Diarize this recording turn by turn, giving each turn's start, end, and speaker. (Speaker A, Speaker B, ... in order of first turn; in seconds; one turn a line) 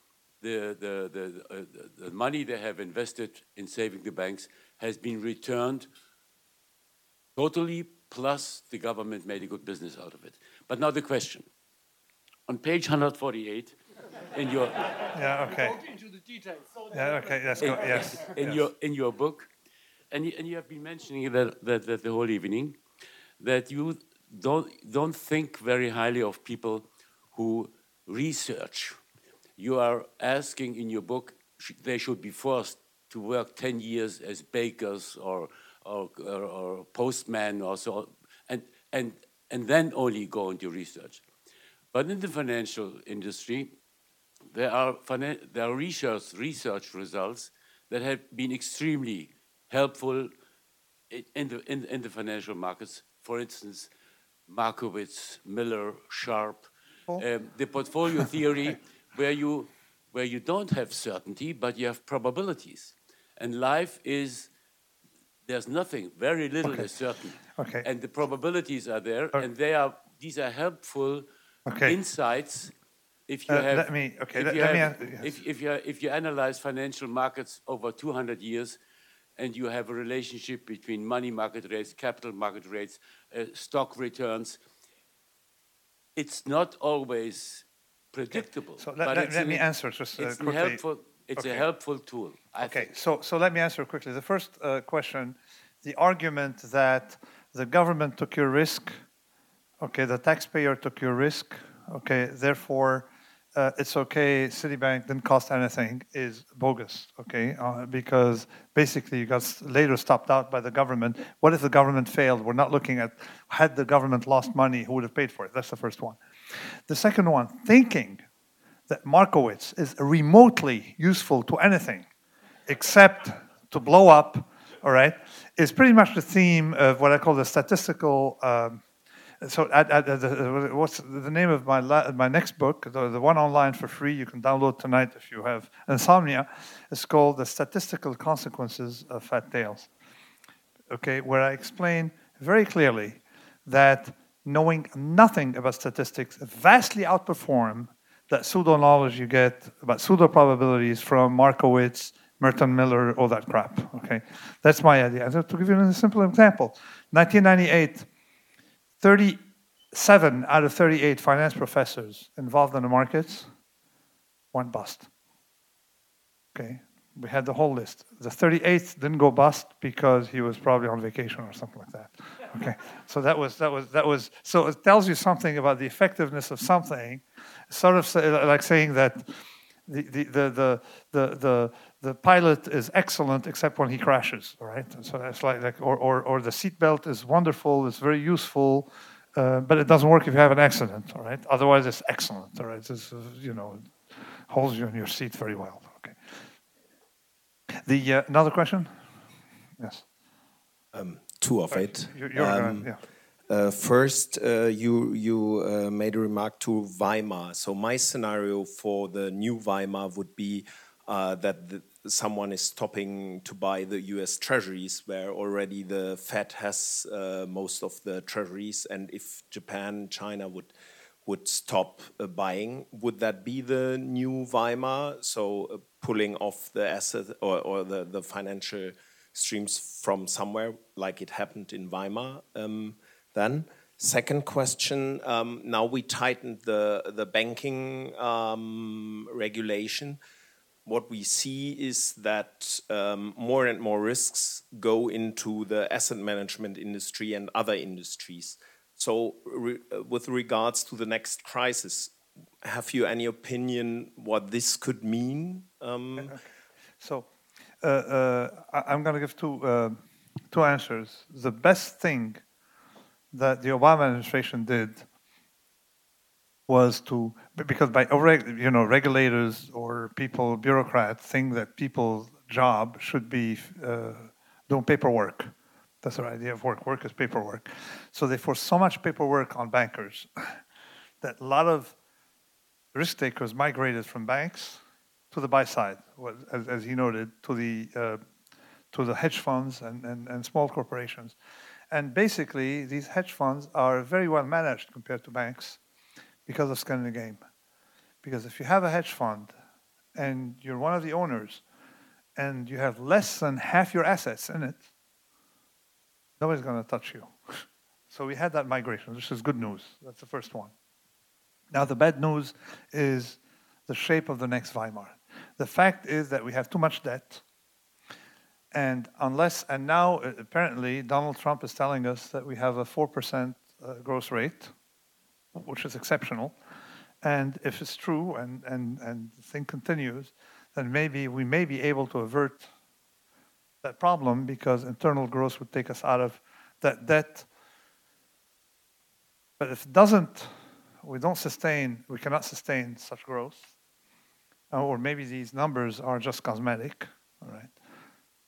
Speaker A: 0.4-5.9
Speaker A: 7.4-11.5
Speaker A: 12.5-13.8
Speaker A: 14.3-15.1
Speaker B: 15.1-15.9
Speaker B: 16.9-18.6
Speaker A: 17.6-19.5
Speaker A: 20.1-22.8
Speaker A: 23.4-29.0
Speaker A: 29.6-41.2
Speaker A: 41.9-43.8
Speaker A: 44.5-50.3
Speaker A: 51.1-53.9
Speaker A: 54.5-64.5
Speaker A: 65.5-71.3
Speaker B: 66.6-66.9
Speaker B: 67.5-67.8
Speaker B: 71.7-72.0
Speaker A: 71.8-72.7
Speaker A: 73.3-78.8
Speaker B: 73.5-75.4
Speaker A: 79.4-84.6
Speaker A: 86.2-89.7
Speaker B: 88.3-90.8
Speaker A: 90.2-92.9
Speaker B: 91.3-91.7
Speaker B: 92.6-99.0
Speaker B: 99.8-118.2
Speaker B: 118.9-122.1
Speaker B: 122.7-128.8
Speaker B: 129.4-139.9
Speaker B: 140.9-158.1
Speaker B: 159.0-159.4
Speaker B: 159.9-163.5
Speaker B: 164.5-165.1
Speaker B: 166.5-196.2
Speaker B: 197.8-198.9
Speaker B: 199.8-200.1
Speaker C: 200.9-202.9
Speaker B: 201.7-203.0
Speaker C: 203.5-220.7
Speaker C: 221.2-240.2
Speaker C: 240.8-256.4
Speaker B: 256.2-256.4
Speaker B: 257.0-257.3
Speaker B: 257.8-260.0
Speaker B: 260.5-262.4
Speaker B: 263.3-265.1
Speaker B: 266.7-280.3
Speaker B: 281.2-282.0
Speaker B: 282.9-288.2
Speaker B: 288.9-291.4
Speaker B: 291.9-295.8
Speaker B: 296.5-297.4
Speaker B: 298.2-299.5
Speaker B: 300.1-301.6
Speaker B: 302.4-304.9
Speaker B: 306.4-310.7
Speaker B: 311.7-317.4
Speaker B: 318.7-324.7
Speaker B: 325.5-326.6
Speaker B: 327.2-332.7
Speaker B: 333.8-337.5
Speaker B: 339.6-343.7
Speaker B: 344.7-347.8